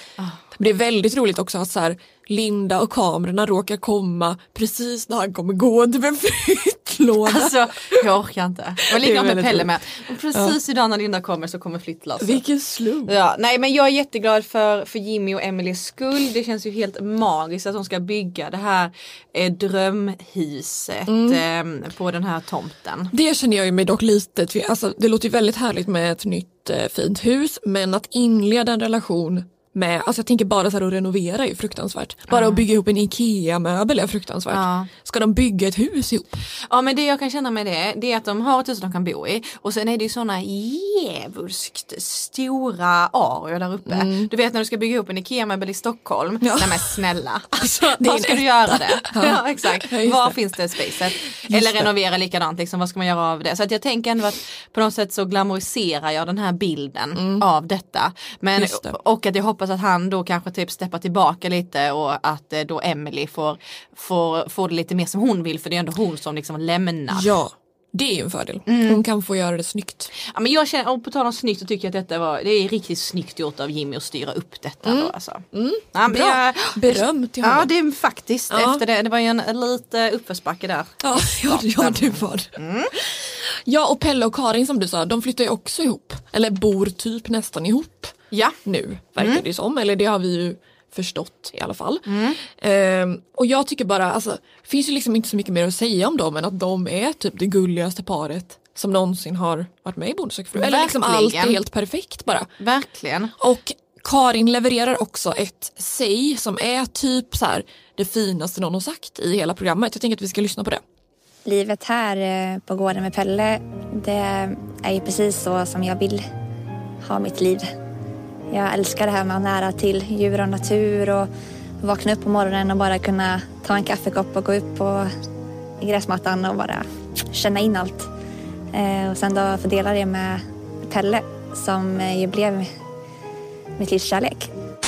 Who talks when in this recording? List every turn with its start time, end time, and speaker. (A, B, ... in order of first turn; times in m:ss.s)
0:00.6-0:08.0 A
0:07.3-0:12.4 B
0:08.9-0:09.7 A
0:12.2-0:13.1 A
0:13.1-0:23.1 B
0:21.1-0:21.4 A
0:23.1-0:36.4 A
0:32.3-0:32.7 B
0:34.5-0:34.9 B
0:36.7-1:07.3 B
0:43.9-0:44.3 A
0:46.4-0:47.0 A
0:47.5-0:50.4 A
0:51.4-0:51.9 A
0:57.2-0:57.4 A
0:58.6-0:59.0 A
1:07.1-1:10.1 A
1:08.7-1:09.0 B
1:10.2-1:20.9 B
1:14.8-1:17.7 A
1:18.5-1:18.8 A
1:21.0-1:28.1 A
1:21.5-1:22.9 B
1:28.3-1:28.6 B
1:28.6-1:42.5 A
1:32.1-1:32.4 B
1:40.6-1:41.6 B
1:42.6-1:43.3 B
1:43.4-1:50.8 A
1:51.5-1:56.2 C
1:57.0-1:57.7 C
1:58.5-2:01.3 C
2:01.8-2:05.1 C
2:05.8-2:08.1 C
2:08.7-2:12.7 C
2:13.8-2:14.5 C